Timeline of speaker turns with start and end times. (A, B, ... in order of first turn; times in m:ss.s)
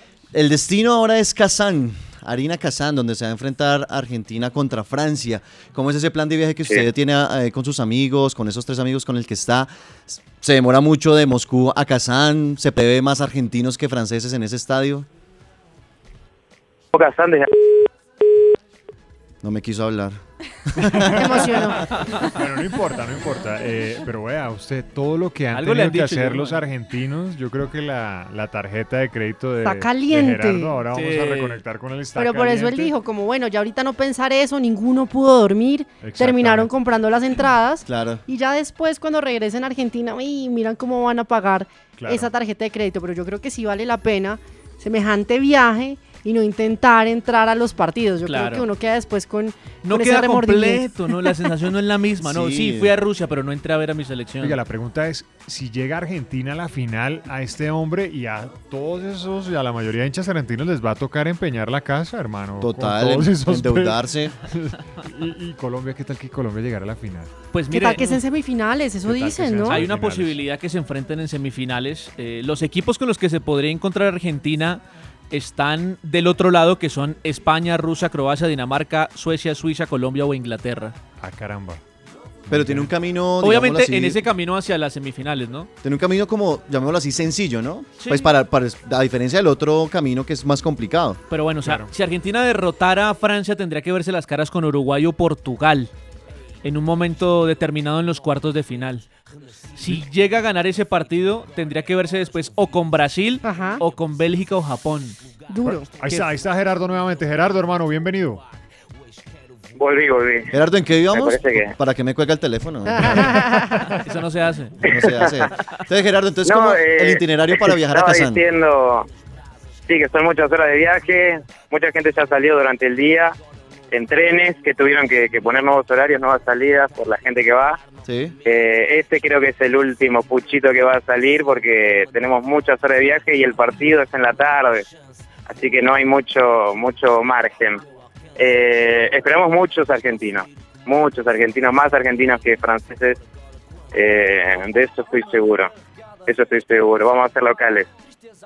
0:00.3-0:15.1 A
0:16.9-0:17.8 B
0:19.4-0:21.6 A
0:20.8-0:32.9 C
0:21.1-0:21.8 D
0:25.5-0:26.6 E
0:29.6-0:30.8 D
0:30.9-0:31.6 E
0:32.2-0:51.2 D
0:36.0-0:36.7 C
0:37.8-0:38.2 A
0:42.0-0:42.3 C
0:48.2-0:48.7 E
0:49.8-0:54.6 E
0:52.2-0:52.9 A
0:54.4-1:07.3 C
1:02.6-1:04.4 A
1:07.5-1:08.2 E
1:07.7-1:09.8 D
1:09.0-1:10.4 C
1:09.7-1:20.9 E
1:21.2-1:21.8 C
1:22.5-1:22.9 C
1:22.5-1:24.2 A
1:23.4-1:25.7 E
1:25.8-1:31.2 A
1:28.0-1:28.3 E
1:31.3-1:35.9 E
1:31.6-1:31.9 C
1:36.6-1:39.0 E
1:39.8-1:45.2 E
1:43.4-1:43.8 D
1:45.5-1:45.9 D
1:46.0-1:48.4 C
1:49.8-1:50.5 B
1:50.5-1:53.5 A
1:51.1-1:51.7 B
1:52.9-1:53.8 D
1:54.0-1:54.8 E
1:54.8-1:58.4 A
1:54.8-1:55.5 B
1:56.4-1:59.1 B
1:59.9-2:03.4 B
2:03.9-2:07.8 B
2:08.0-2:08.3 A
2:08.4-2:14.8 B
2:15.5-2:17.8 B
2:18.4-2:23.2 B
2:23.9-2:25.7 B
2:26.3-2:27.9 B